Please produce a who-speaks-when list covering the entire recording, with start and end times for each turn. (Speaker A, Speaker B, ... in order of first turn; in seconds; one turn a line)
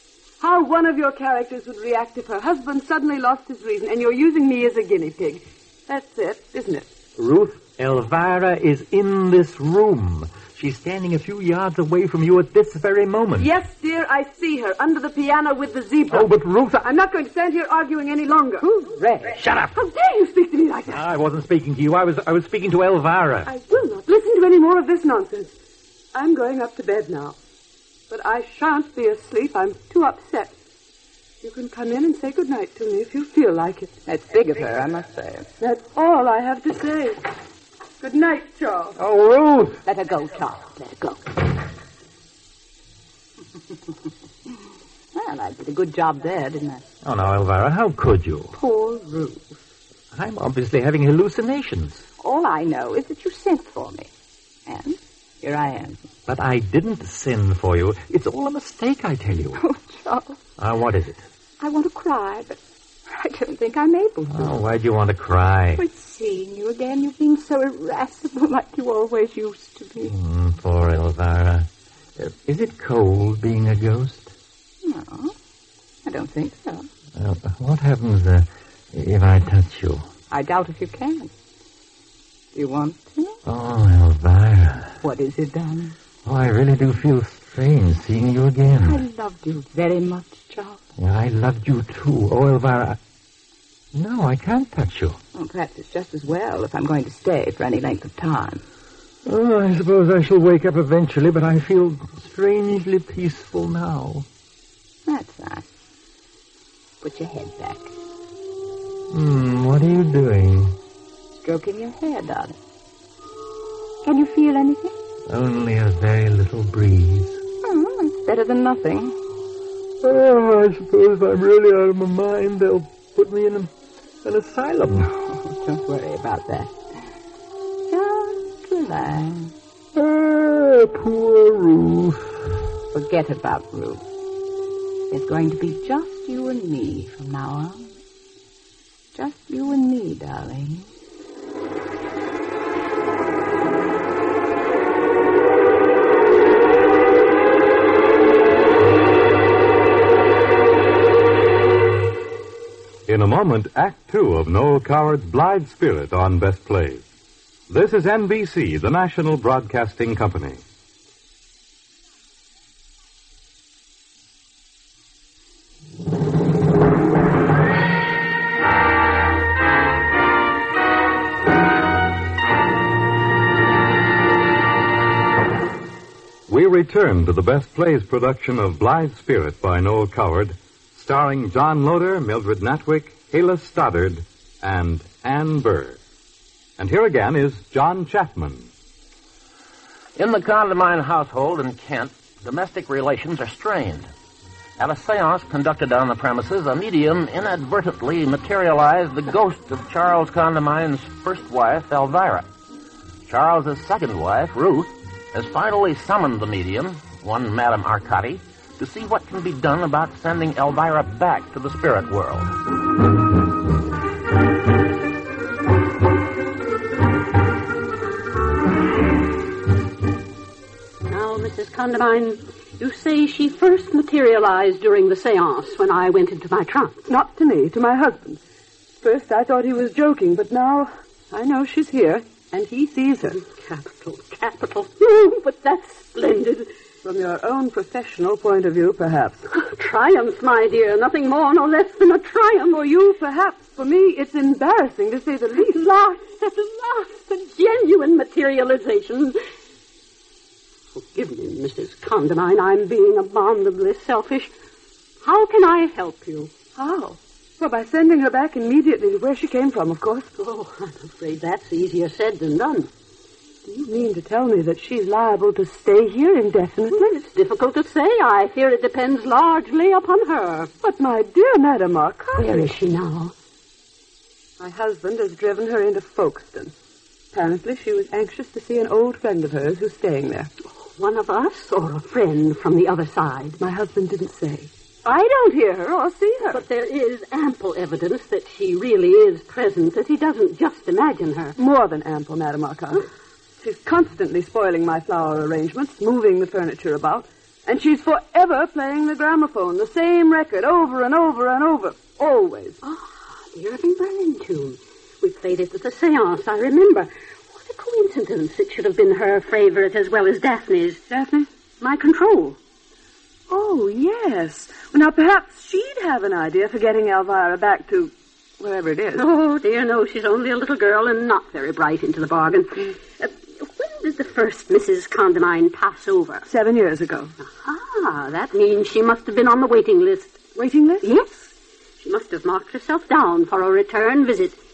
Speaker A: 0.4-6.9
Speaker B: 7.2-13.5
Speaker A: 13.4-18.7
Speaker B: 16.1-16.8
Speaker C: 18.6-19.4
Speaker B: 19.3-19.8
Speaker A: 19.7-21.0
Speaker B: 20.9-23.5
Speaker A: 23.4-25.5
Speaker A: 26.1-27.4
Speaker A: 28.1-30.5
Speaker A: 31.4-33.9
Speaker C: 34.0-35.5
Speaker A: 35.6-37.2
Speaker A: 38.0-39.0
Speaker B: 39.0-39.8
Speaker C: 39.8-40.8
Speaker D: 40.8-41.2
Speaker C: 45.1-46.8
Speaker B: 47.0-48.5
Speaker C: 48.5-49.5
Speaker B: 50.1-52.0
Speaker C: 52.2-54.1
Speaker C: 54.7-56.0
Speaker B: 56.3-59.6
Speaker C: 59.5-60.4
Speaker B: 60.6-61.2
Speaker C: 61.6-62.6
Speaker C: 63.1-64.6
Speaker B: 64.3-65.8
Speaker C: 65.8-70.1
Speaker B: 70.1-74.3
Speaker C: 74.8-75.3
Speaker C: 76.0-76.9
Speaker B: 77.1-80.1
Speaker C: 80.3-81.3
Speaker C: 82.5-83.4
Speaker B: 83.5-84.9
Speaker C: 85.0-85.9
Speaker B: 86.2-89.0
Speaker C: 88.7-90.8
Speaker B: 91.0-93.0
Speaker B: 93.9-95.2
Speaker C: 95.3-98.6
Speaker B: 99.2-104.3
Speaker C: 105.0-105.7
Speaker C: 107.0-107.9
Speaker B: 109.1-110.8
Speaker C: 111.3-112.6
Speaker C: 114.0-114.9
Speaker B: 115.3-117.4
Speaker C: 117.6-119.2
Speaker B: 120.0-123.7
Speaker B: 124.2-125.1
Speaker C: 125.0-126.7
Speaker C: 127.9-129.5
Speaker B: 129.9-132.4
Speaker C: 132.9-134.0
Speaker C: 135.1-137.9
Speaker C: 139.1-140.9
Speaker E: 153.1-157.0
Speaker E: 157.7-160.6
Speaker E: 176.5-186.0
Speaker E: 186.8-188.7
Speaker F: 190.2-194.1
Speaker F: 194.8-202.5
Speaker F: 203.2-212.5
Speaker D: 221.1-227.1
Speaker A: 227.1-228.4
Speaker A: 229.0-233.4
Speaker D: 233.4-236.7
Speaker A: 237.0-239.4
Speaker D: 239.5-242.8
Speaker A: 242.7-246.2
Speaker D: 246.2-249.4
Speaker D: 251.0-254.5
Speaker D: 255.2-256.5
Speaker A: 256.7-260.3
Speaker D: 260.4-262.9
Speaker A: 263.6-267.2
Speaker D: 266.9-270.7
Speaker A: 270.8-272.5
Speaker D: 272.3-273.3
Speaker A: 274.6-276.7
Speaker A: 277.3-280.5
Speaker D: 280.8-283.6
Speaker A: 283.6-286.6
Speaker D: 286.5-291.5
Speaker A: 291.6-293.1
Speaker A: 293.6-302.8
Speaker D: 302.8-311.0
Speaker A: 311.1-311.5
Speaker D: 311.8-312.6
Speaker A: 313.5-319.2
Speaker D: 319.2-326.5
Speaker A: 326.4-327.3
Speaker D: 327.4-330.4
Speaker A: 330.5-331.1
Speaker D: 331.0-334.6